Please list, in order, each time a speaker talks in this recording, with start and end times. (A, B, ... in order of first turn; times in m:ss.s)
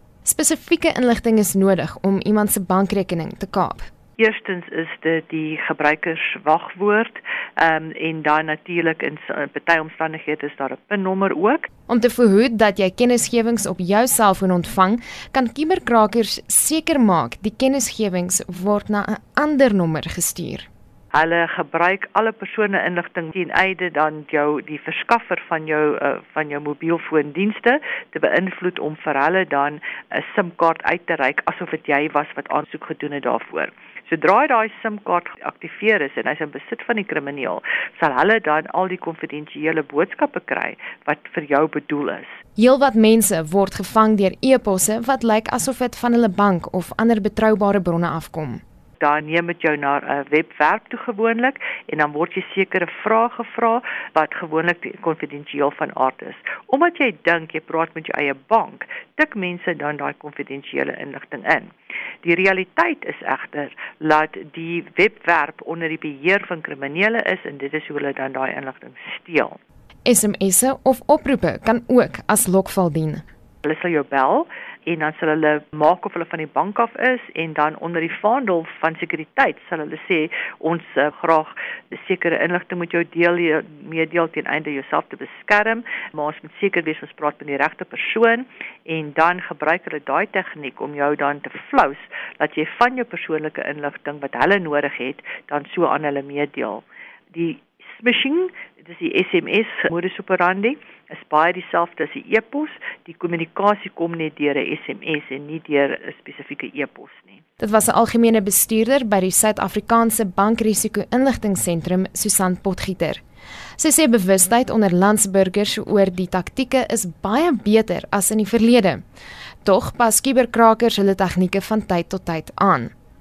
0:00.2-0:03.9 A
0:04.2-0:11.7 B
0:11.9-0:20.7 A
0:21.1-0:42.3 B
0:42.6-0:48.6 A
0:49.0-1:01.7 B
1:02.2-1:09.6 B
1:10.1-1:13.2 A
1:13.6-1:47.4 B
1:47.6-1:53.2 A
1:53.8-1:59.0 A
1:59.6-2:02.9 A